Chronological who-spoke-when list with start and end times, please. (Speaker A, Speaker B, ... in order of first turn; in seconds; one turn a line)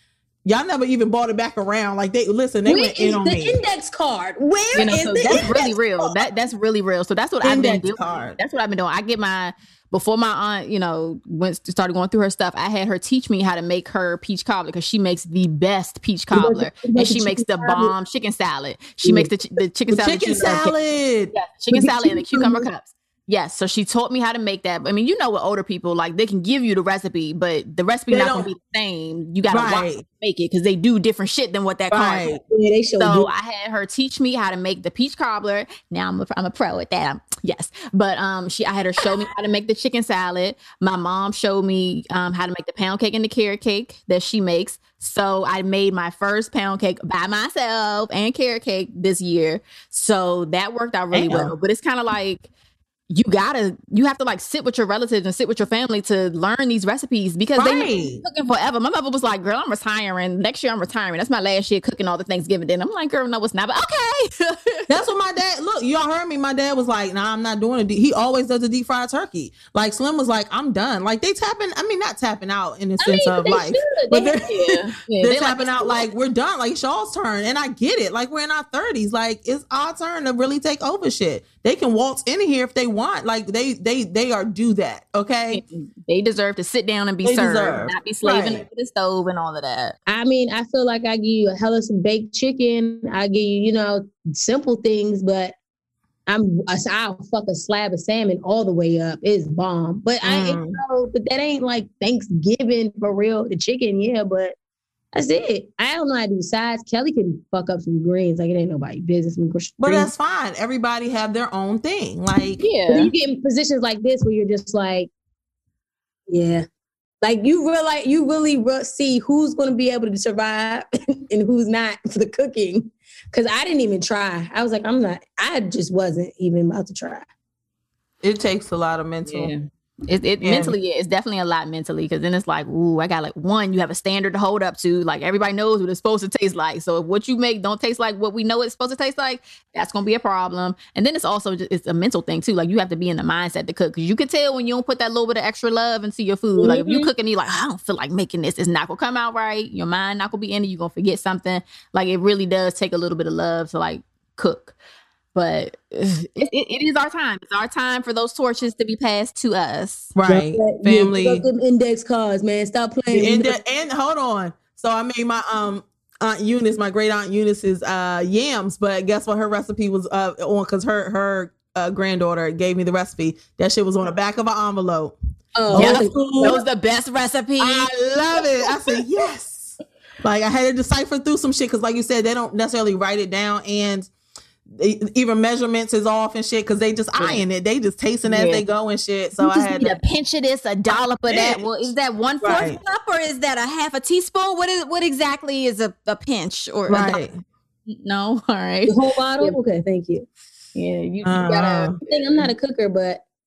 Speaker A: 0.4-3.6
Speaker B: 2.6-6.1
Speaker C: 4.7-20.7
Speaker A: 7.4-8.4
Speaker B: 16.3-17.9
Speaker B: 19.0-19.3
Speaker A: 19.9-21.3
Speaker C: 21.3-32.3
Speaker B: 21.7-22.6
Speaker A: 28.1-28.5
Speaker A: 29.5-30.0
Speaker A: 31.9-32.4
Speaker B: 32.5-33.3
Speaker C: 33.0-52.5
Speaker A: 51.1-51.5
Speaker C: 53.1-64.8
Speaker A: 57.6-58.2
Speaker A: 64.9-85.6
Speaker B: 73.0-74.4
Speaker C: 74.4-75.7
Speaker C: 85.5-90.0
Speaker A: 87.2-88.6
Speaker B: 90.1-95.5
Speaker B: 96.3-104.5
Speaker A: 100.2-100.8
Speaker B: 105.1-110.1
Speaker A: 109.8-112.6
Speaker C: 112.6-113.1
Speaker B: 112.9-115.1
Speaker B: 116.3-116.7
Speaker B: 117.2-127.3
Speaker A: 128.2-129.5
Speaker C: 129.2-154.7
Speaker A: 130.4-130.8
Speaker B: 146.6-147.1
Speaker C: 155.3-160.1
Speaker A: 160.1-161.4
Speaker B: 160.3-163.5
Speaker A: 163.1-175.2
Speaker B: 175.6-176.6
Speaker A: 175.7-176.6
Speaker C: 175.7-177.9
Speaker A: 177.6-184.1
Speaker A: 184.7-189.9
Speaker C: 187.2-187.4
Speaker C: 188.2-188.6
Speaker C: 189.4-197.2
Speaker A: 191.2-191.6
Speaker A: 192.4-192.8
Speaker A: 196.9-197.4
Speaker C: 197.9-199.6
Speaker B: 198.9-200.3
Speaker C: 200.7-202.0
Speaker A: 201.2-202.0
Speaker B: 202.0-203.2